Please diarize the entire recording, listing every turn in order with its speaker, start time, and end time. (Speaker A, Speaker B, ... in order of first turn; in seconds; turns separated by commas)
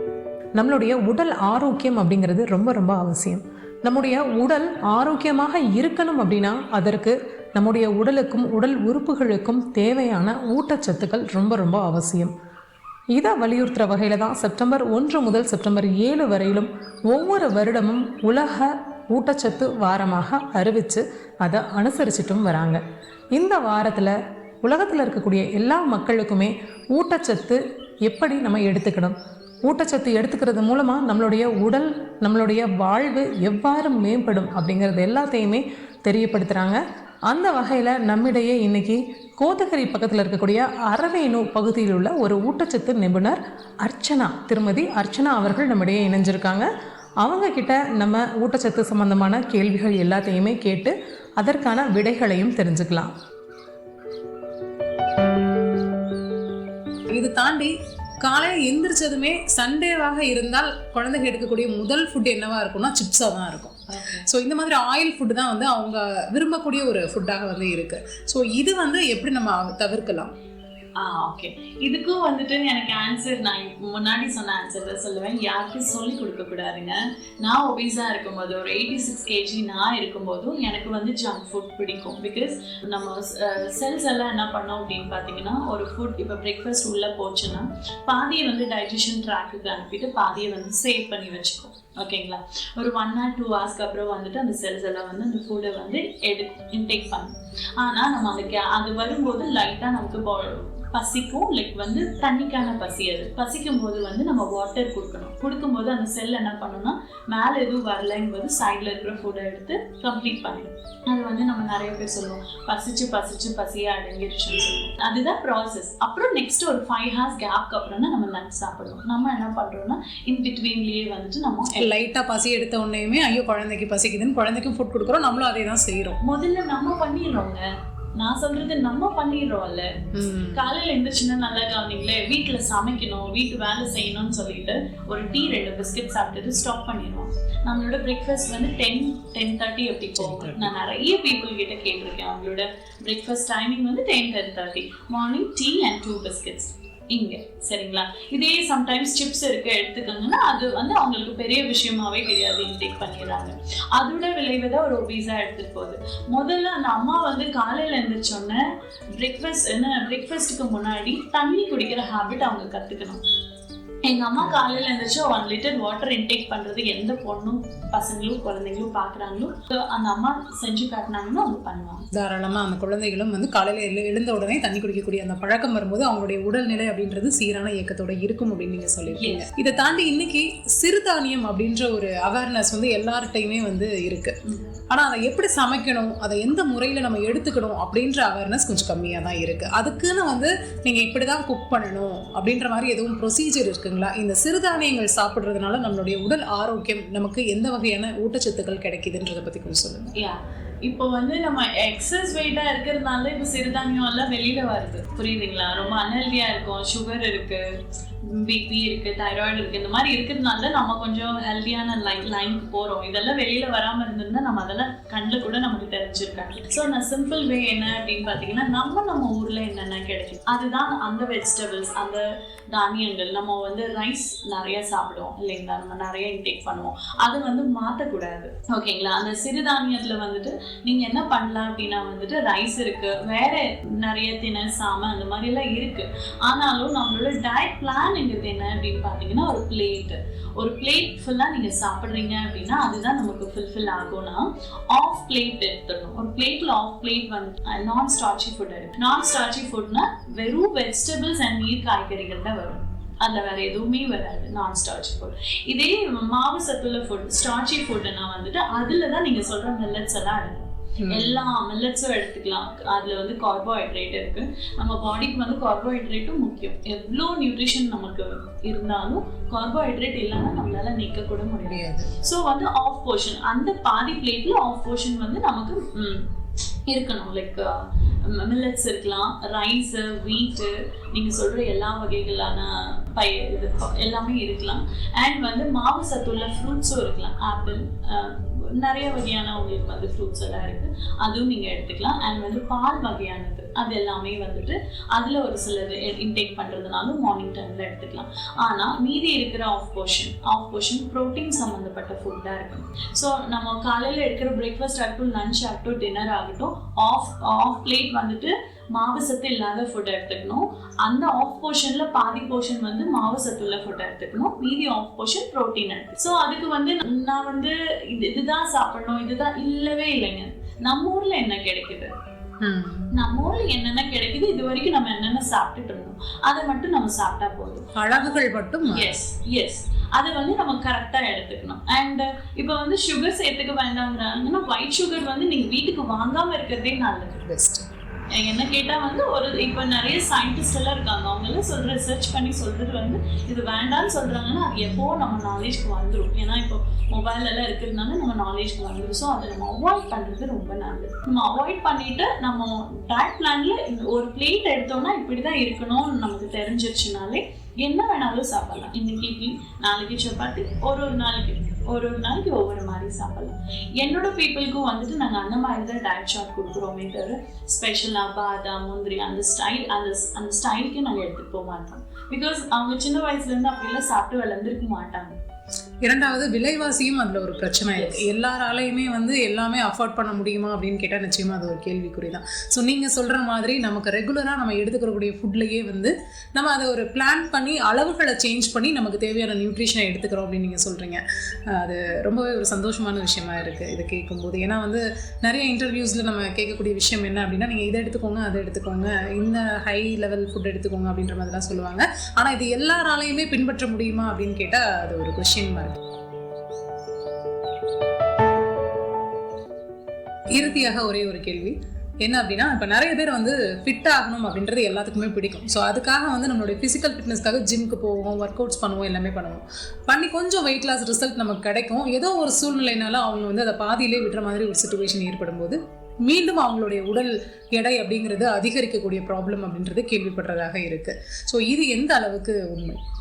Speaker A: 0.6-12.3, Speaker B: 0.7-3.3, Speaker B: 4.1-5.0, Speaker B: 5.6-6.6, Speaker B: 8.1-12.3, Speaker B: 13.2-16.7, Speaker A: 13.2-18.6, Speaker B: 17.3-18.1, Speaker A: 19.2-22.8, Speaker B: 19.2-20.9, Speaker B: 21.5-22.8, Speaker A: 23.4-24.1, Speaker B: 23.7-24.1, Speaker A: 24.6-27.6, Speaker B: 24.7-26.5, Speaker A: 28.1-29.0, Speaker B: 28.1-29.1, Speaker A: 29.7-36.8, Speaker B: 29.7-35.6, Speaker B: 36.2-36.8, Speaker A: 37.3-46.6, Speaker B: 37.3-39.0, Speaker B: 39.8-43.4, Speaker B: 43.9-46.6, Speaker A: 47.2-52.9, Speaker B: 47.3-50.9, Speaker B: 51.4-53.1, Speaker B: 57.1-57.7, Speaker B: 58.2-70.3, Speaker C: 63.9-64.2, Speaker C: 71.0-122.1, Speaker B: 121.8-126.2, Speaker C: 126.2-127.6, Speaker C: 128.2-129.9, Speaker B: 130.1-130.6, Speaker C: 130.5-158.6, Speaker B: 140.2-140.7, Speaker C: 159.2-163.2, Speaker C: 164.0-172.0, Speaker B: 172.1-184.3, Speaker C: 179.1-179.4, Speaker C: 184.4-184.7, Speaker B: 184.9-200.1, Speaker C: 200.2-207.6, Speaker C: 208.3-276.3, Speaker B: 261.0-261.4, Speaker B: 271.6-272.1, Speaker C: 276.9-322.1, Speaker B: 322.6-323.1, Speaker C: 323.1-327.9, Speaker B: 327.9-329.2, Speaker C: 328.9-337.5, Speaker B: 337.5-337.9, Speaker C: 338.3-375.4, Speaker B: 376.0-406.0, Speaker C: 377.9-378.3, Speaker B: 410.5-433.0